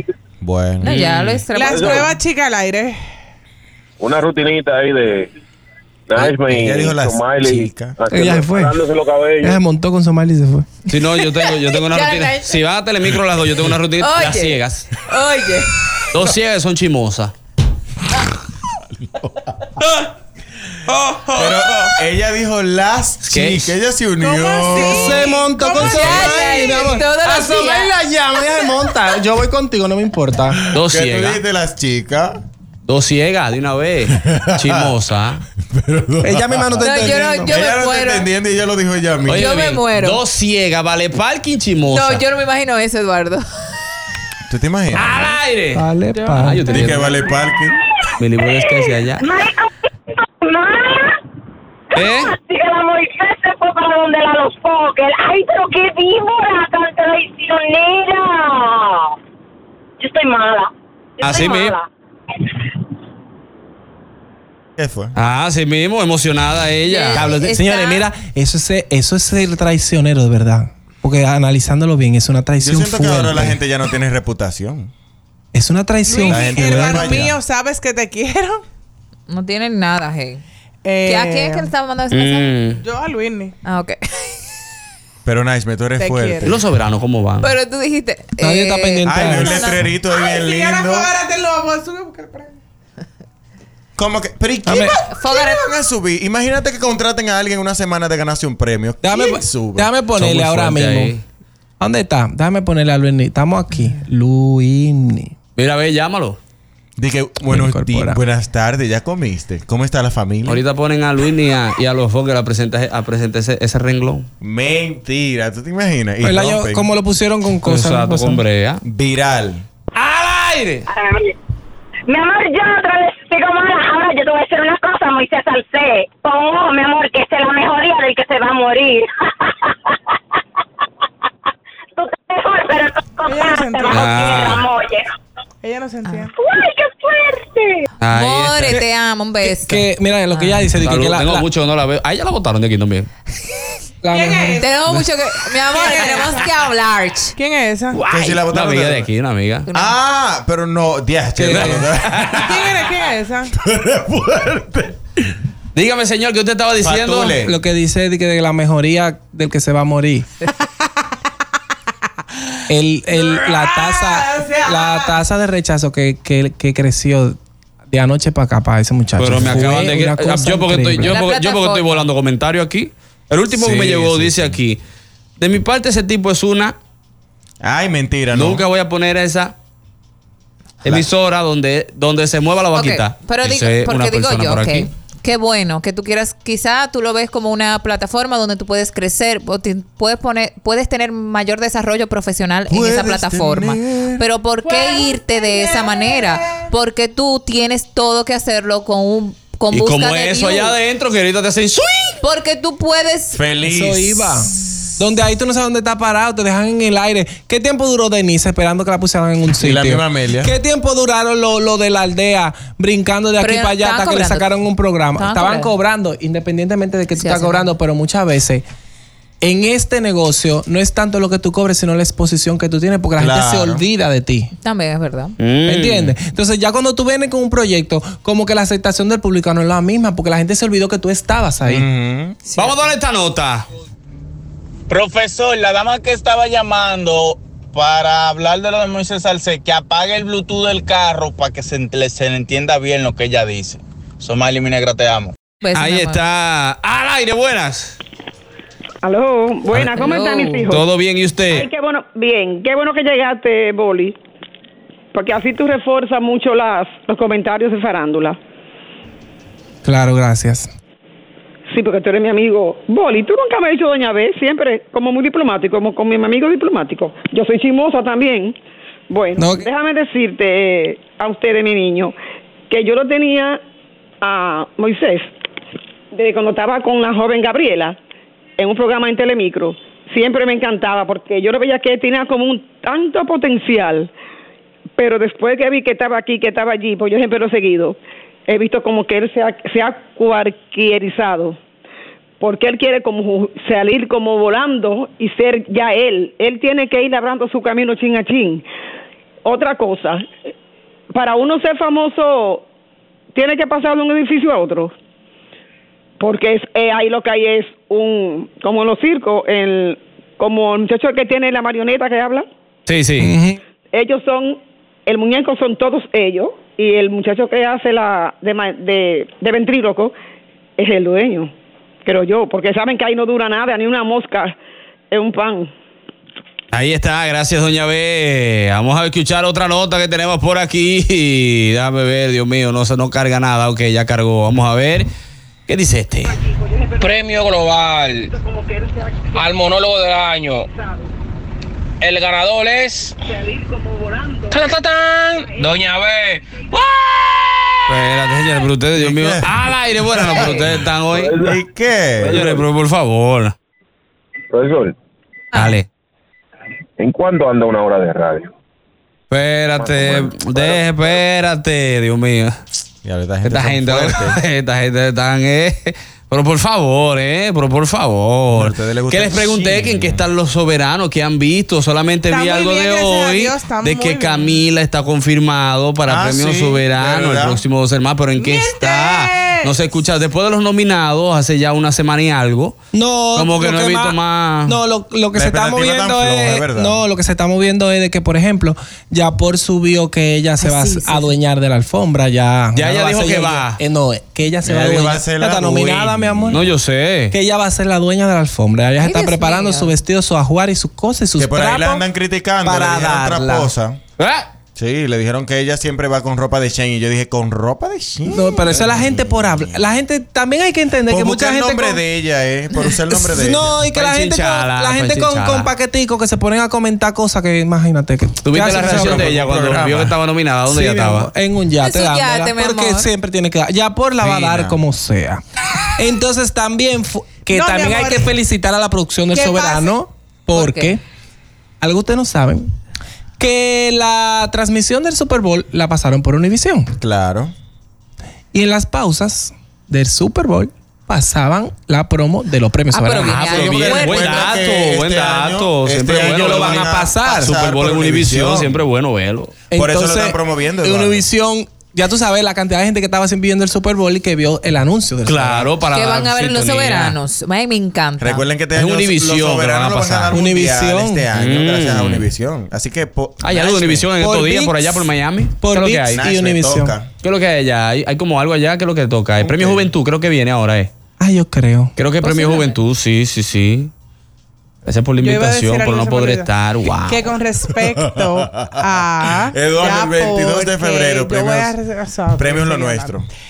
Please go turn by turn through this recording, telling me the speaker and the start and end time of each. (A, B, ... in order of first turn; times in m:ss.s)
0:00.4-0:00.9 A
0:00.8-0:02.1 B
0:00.8-0:01.4 C
0:01.5-0:03.0 D
0:01.6-0:02.1 E
0:04.0-0:05.3 E
0:06.1-0:09.6 E
0:06.2-0:08.0 A
0:08.1-0:08.8 F
0:09.4-0:10.7 F
0:10.9-0:14.9 C
0:11.7-0:12.6 B
0:14.0-0:15.8 B
0:16.1-0:17.3 C
0:20.9-0:21.6 C
0:21.4-0:25.4 A
0:23.2-0:23.7 C
0:24.2-0:25.9 D
0:24.7-0:30.6 F
0:25.8-0:27.9 B
0:25.9-0:26.2 A
0:30.6-0:32.4 A
0:30.7-0:31.4 C
0:32.9-0:35.4 C
0:34.1-0:34.9 A
0:35.7-0:39.5 A
0:36.2-0:37.6 F
0:36.8-0:38.3 B
0:39.3-0:42.2 C
0:39.4-0:40.2 B
0:41.9-0:43.4 B
0:44.5-0:45.4 A
0:44.9-0:45.8 C
0:45.7-0:46.7 F
0:46.4-0:47.1 C
0:46.7-0:47.8 A
0:48.2-0:49.4 C
0:49.2-0:51.1 G
0:52.0-0:52.4 C
0:52.0-0:59.1 G
1:00.0-1:01.8 G
1:01.2-1:01.8 C
1:04.8-1:05.1 A
1:05.1-1:07.4 C
1:06.9-1:08.0 B
1:07.2-1:13.6 F
1:12.6-1:14.9 A
1:15.5-1:17.3 F
1:16.1-1:18.6 D
1:16.2-1:17.3 A
1:19.3-1:20.4 B
1:20.8-1:21.7 D
1:21.0-1:22.6 B
1:22.1-1:22.8 C
1:22.8-1:23.5 D
1:23.6-1:24.0 B
1:25.2-1:26.6 A
1:26.0-1:26.5 D
1:26.4-1:27.5 C
1:27.4-1:29.8 B
1:28.4-1:29.7 F
1:29.0-1:31.1 A
1:30.1-1:32.5 D
1:34.0-1:39.9 A
1:34.6-1:34.9 F
1:35.1-1:35.6 B
1:39.0-1:41.1 F
1:40.2-1:41.2 C
1:41.8-1:45.3 F
1:45.6-1:46.4 C
1:47.0-1:50.6 A
1:47.5-1:48.2 F
1:50.4-1:54.3 C
1:54.4-1:56.9 A
1:56.2-1:58.4 F
1:57.6-1:58.8 C
1:58.8-1:59.6 A
1:59.9-2:00.8 C
2:00.9-2:01.3 G
2:02.1-2:09.1 G
2:12.0-2:15.1 G
2:13.2-2:14.6 D
2:13.9-2:14.6 C
2:15.6-2:16.3 D
2:16.4-2:17.8 G
2:18.0-2:18.8 C
2:18.1-2:20.7 B
2:19.4-2:21.4 F
2:20.8-2:23.1 C
2:24.0-2:24.6 F
2:24.1-2:24.7 D
2:24.6-2:27.3 B
2:25.7-2:26.5 D
2:27.4-2:28.0 D
2:28.0-2:29.1 A
2:28.1-2:29.7 C
2:29.7-2:32.6 A
2:31.4-2:31.9 F
2:31.5-2:32.6 C
2:32.4-2:33.5 D
2:33.6-2:35.0 A
2:35.7-2:37.4 C
2:36.8-2:37.5 A
2:37.4-2:40.2 F
2:42.7-2:47.4 F
2:43.6-2:45.1 D
2:47.9-2:51.1 F
2:49.2-2:54.8 C
2:51.1-2:52.0 B
2:53.6-2:54.6 A
2:55.4-2:56.7 C
2:57.6-2:58.6 A
2:58.3-2:59.5 C
3:00.8-3:04.9 C
3:02.7-3:20.8 B
3:12.7-3:14.2 A
3:14.6-3:16.6 D
3:19.7-3:22.2 C
3:22.2-3:23.4 B
3:23.3-3:24.3 A
3:23.6-3:38.6 F
3:29.6-3:30.5 A
3:33.4-3:34.5 B
3:35.2-3:35.7 B
3:37.2-3:37.7 B
3:39.4-3:44.5 F
3:43.2-3:43.8 A
3:44.6-3:45.4 B
3:45.4-3:46.1 C
3:45.7-3:51.8 F
3:51.7-3:52.4 A
3:52.6-3:53.6 C
3:54.9-4:05.3 H
4:05.6-4:06.2 B
4:05.7-4:08.0 C
4:09.0-4:10.9 I
4:09.9-4:10.7 B
4:10.7-4:11.7 C
4:11.5-4:14.1 I
4:15.1-4:18.4 I
4:19.8-4:20.7 F
4:21.7-4:28.6 I
4:29.1-4:32.1 I
4:29.4-4:29.6 F
4:32.7-4:33.6 I
4:34.2-4:35.3 I
4:36.1-4:38.0 I
4:38.6-4:44.1 I
4:45.0-4:48.0 I
4:48.5-4:51.6 I
4:52.4-4:58.6 I
4:59.4-5:00.3 I
5:01.1-5:02.6 I
5:03.4-5:04.9 I
5:06.2-5:12.5 I
5:12.9-5:13.3 C
5:13.2-5:13.6 F
5:13.9-5:20.1 I
5:20.8-5:21.5 I
5:22.0-5:24.6 I
5:25.1-5:25.7 I
5:26.7-5:35.1 C
5:35.7-5:36.4 C
5:39.5-5:40.5 J
5:44.5-5:45.6 J
5:47.9-5:51.4 C
5:49.0-5:50.7 A
5:51.1-5:51.6 E
5:51.4-5:52.4 A
5:52.2-5:52.6 E
5:52.3-5:53.5 C
5:54.5-5:54.9 E
5:55.5-5:55.9 C
5:57.0-5:58.5 E
5:59.3-6:02.6 C
5:59.8-6:00.8 E
6:03.0-6:04.4 A
6:03.4-6:22.8 C
6:08.5-6:10.2 A
6:12.3-6:14.6 D
6:16.1-6:17.6 A
6:18.4-6:19.7 D
6:22.9-6:36.6 F
6:23.4-6:24.8 C
6:25.4-6:27.0 A
6:30.6-6:31.2 B
6:32.7-6:33.8 C
6:34.6-6:36.6 A
6:36.5-6:37.3 C
6:37.3-6:42.0 F
6:39.0-6:39.9 B
6:41.4-6:44.0 A
6:42.6-6:43.7 F
6:44.2-6:44.4 C
6:44.8-6:49.8 A
6:48.3-6:52.0 F
6:51.1-6:53.8 A
6:53.1-6:59.2 F
6:53.9-6:55.7 C
6:58.4-7:01.3 C
6:58.7-7:00.1 A
7:00.7-7:05.4 F
7:01.8-7:03.1 B
7:04.3-7:04.7 A
7:06.0-7:11.0 F
7:07.5-7:08.3 D
7:09.3-7:09.9 D
7:10.5-7:11.0 B
7:11.8-7:12.7 F
7:13.4-7:16.9 F
7:17.0-7:17.5 A
7:18.5-7:23.6 F
7:22.9-7:24.4 B
7:23.2-7:29.5 C
7:23.5-7:28.8 A
7:26.3-7:27.6 F
7:29.7-7:35.7 F
7:29.7-7:31.2 A
7:35.2-7:37.2 C
7:35.9-7:38.4 B
7:38.2-7:44.1 A
7:38.7-7:40.4 C
7:40.3-7:41.2 F
7:41.3-7:42.3 C
7:43.4-7:46.2 C
7:44.2-7:45.0 F
7:45.6-7:46.9 F
7:46.1-7:47.1 A
7:47.2-7:50.9 C
7:49.4-7:49.9 A
7:51.2-7:51.9 F
7:52.0-7:53.9 C
7:52.2-7:52.7 B
7:54.8-7:57.3 C
7:55.2-7:56.5 D
7:57.1-8:03.2 D
7:58.1-7:58.8 A
7:59.5-8:01.7 A
8:02.4-8:03.3 A